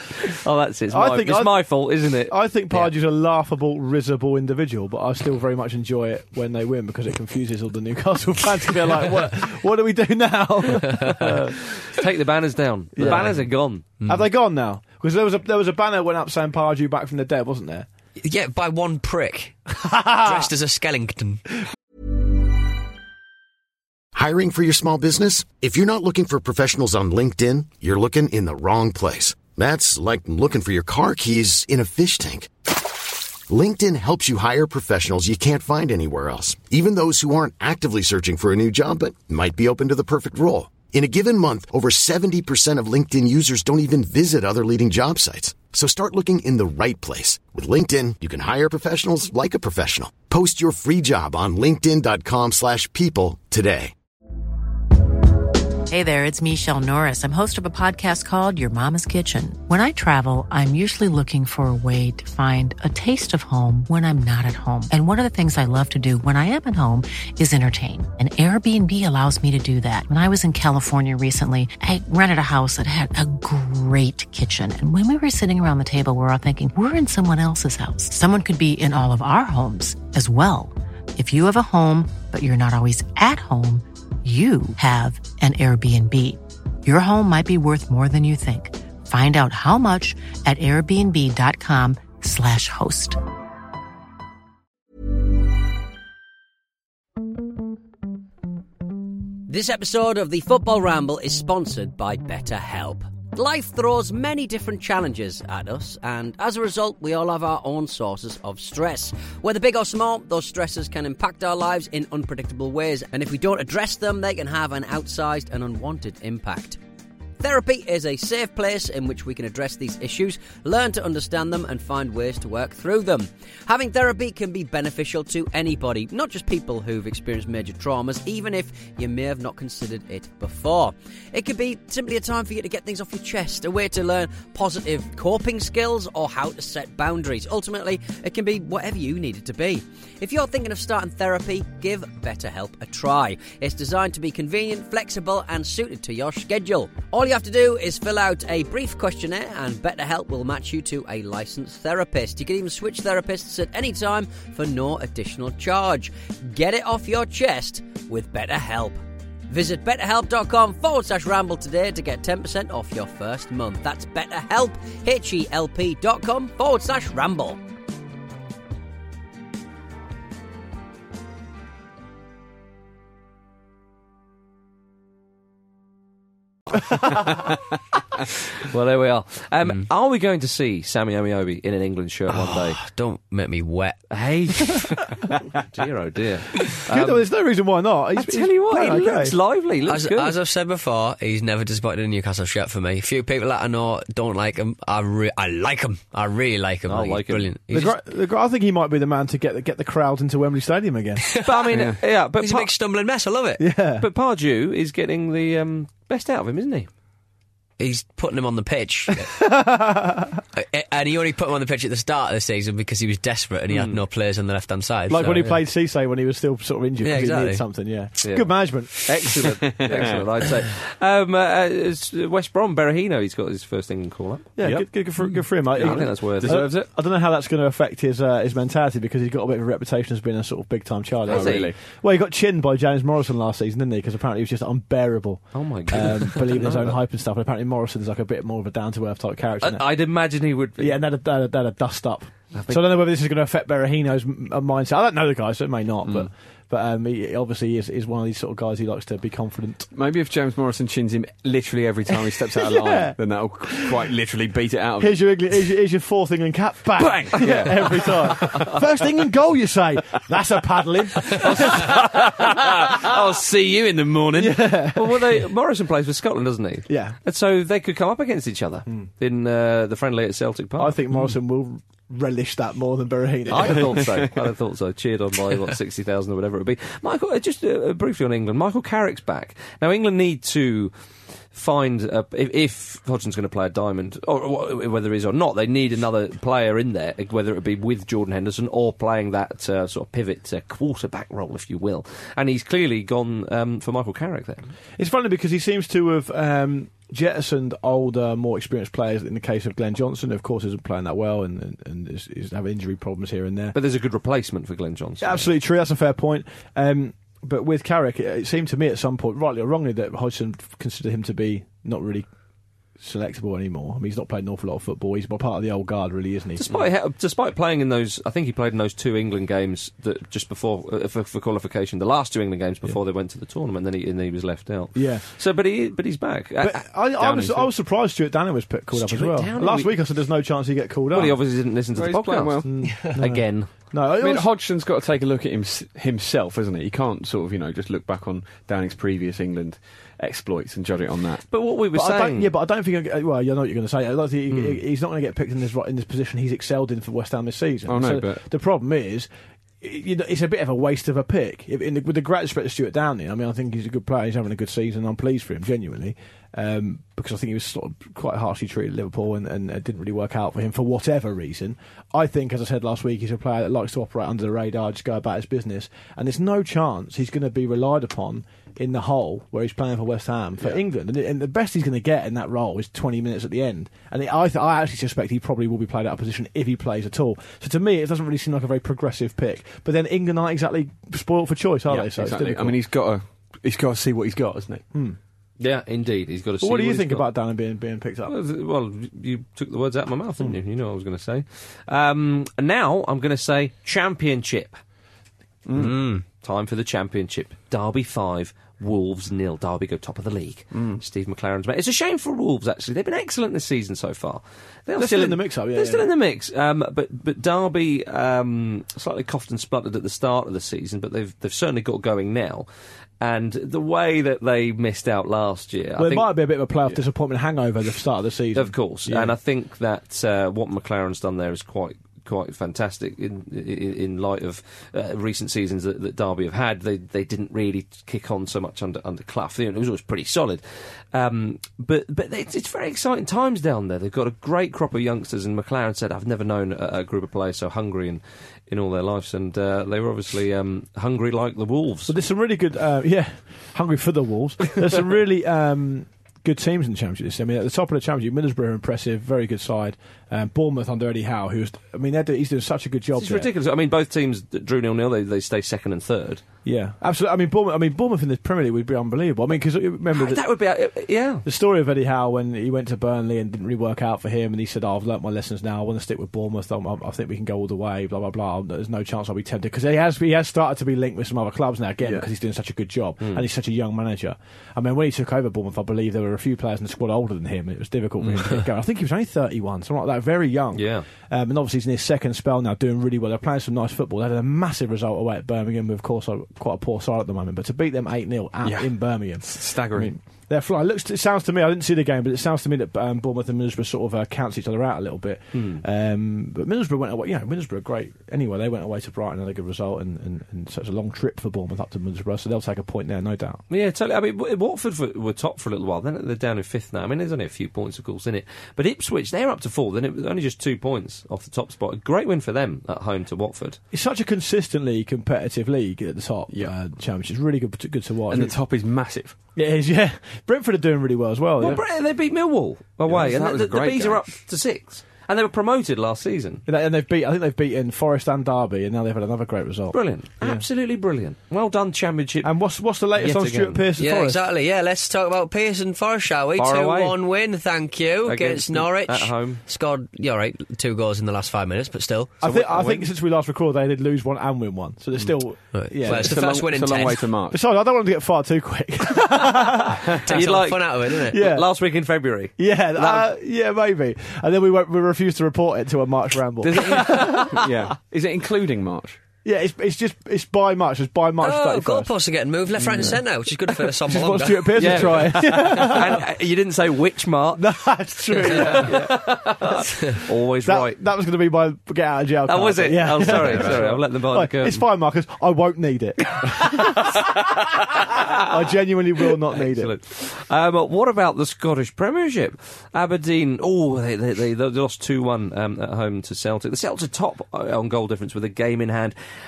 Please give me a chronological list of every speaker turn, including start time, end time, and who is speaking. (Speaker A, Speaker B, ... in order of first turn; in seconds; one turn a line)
Speaker A: 0.3-2.3
Speaker B: 0.9-11.5
Speaker A: 11.2-13.9
Speaker B: 12.9-13.4
Speaker B: 14.0-17.9
Speaker C: 18.2-21.4
Speaker B: 20.0-20.4
Speaker D: 24.1-32.5
Speaker D: 33.5-53.9
Speaker E: 55.9-93.2
Speaker F: 99.5-116.8
Speaker F: 117.4-167.6
Speaker A: 178.7-182.8
Speaker C: 182.3-184.0
Speaker A: 184.1-185.0
Speaker A: 185.6-187.2
Speaker B: 186.9-189.3
Speaker A: 188.2-190.3
Speaker C: 189.8-198.0
Speaker A: 196.8-197.5
Speaker B: 197.7-201.2
Speaker C: 201.3-201.7
Speaker A: 201.4-202.7
Speaker C: 202.4-203.6
Speaker B: 203.6-204.1
Speaker A: 204.0-206.9
Speaker C: 207.8-209.3
Speaker B: 209.2-210.4
Speaker C: 210.6-215.5
Speaker A: 213.7-214.0
Speaker B: 215.1-218.9
Speaker C: 217.0-217.6
Speaker A: 218.2-224.5
Speaker G: 219.2-220.2
Speaker B: 224.6-239.8
Speaker G: 225.7-226.9
Speaker A: 225.7-226.6
Speaker A: 231.3-231.7
Speaker G: 231.3-231.8
Speaker A: 235.5-237.0
Speaker A: 239.6-241.0
Speaker B: 240.8-249.9
Speaker A: 242.5-243.0
Speaker G: 249.9-255.2
Speaker B: 252.3-253.2
Speaker B: 253.7-254.0
Speaker B: 255.0-262.0
Speaker G: 256.9-258.8
Speaker G: 261.2-264.6
Speaker B: 264.4-265.4
Speaker A: 264.9-271.0
Speaker B: 266.9-267.1
Speaker B: 270.8-274.1
Speaker A: 273.5-280.9
Speaker A: 281.5-294.7
Speaker B: 295.0-303.7
Speaker A: 303.7-305.5
Speaker B: 305.2-312.3
Speaker B: 313.0-316.6
Speaker A: 316.6-327.7
Speaker B: 324.9-325.2
Speaker B: 326.6-331.4
Speaker A: 328.9-329.9
Speaker A: 331.1-333.7
Speaker G: 331.9-332.7
Speaker B: 332.6-334.5
Speaker G: 334.2-341.4
Speaker A: 341.5-342.5
Speaker B: 341.9-349.3
Speaker G: 347.9-348.4
Speaker B: 349.8-382.8
Speaker G: 381.9-384.8
Speaker A: 385.6-387.3
Speaker B: 386.6-388.3
Speaker A: 388.3-394.8
Speaker G: 395.6-396.0
Speaker C: 395.8-396.2
Speaker A: 396.4-412.6
Speaker G: 400.7-401.0
Speaker B: 404.9-406.1
Speaker A: 413.2-416.3
Speaker B: 416.0-419.3
Speaker A: 418.5-442.1
Speaker B: 442.1-453.5
Speaker A: 453.1-456.4
Speaker B: 456.6-460.4
Speaker A: 460.1-461.4
Speaker B: 461.4-503.6
Speaker A: 480.7-481.1
Speaker G: 488.6-490.1
Speaker A: 495.5-495.8
Speaker A: 503.7-513.8
Speaker B: 513.9-518.5
Speaker G: 518.3-519.4
Speaker B: 519.5-521.8
Speaker A: 521.6-526.6
Speaker G: 523.0-524.3
Speaker B: 526.6-530.6
Speaker A: 529.9-532.5
Speaker B: 532.4-534.4
Speaker A: 533.2-533.8
Speaker C: 534.0-542.4
Speaker A: 536.5-537.2
Speaker A: 538.2-539.6
Speaker B: 542.4-546.4
Speaker A: 542.4-543.1
Speaker C: 545.7-547.3
Speaker G: 546.1-547.6
Speaker B: 547.5-550.0
Speaker C: 550.2-551.4
Speaker A: 550.3-553.2
Speaker B: 551.2-551.6
Speaker B: 552.6-557.6
Speaker G: 556.6-559.2
Speaker B: 559.4-562.1
Speaker C: 561.4-565.1
Speaker G: 562.8-563.2
Speaker B: 564.0-566.2
Speaker A: 564.8-567.7
Speaker B: 567.5-569.6
Speaker A: 568.3-571.0
Speaker B: 570.6-579.9
Speaker A: 572.5-574.8
Speaker A: 579.5-589.1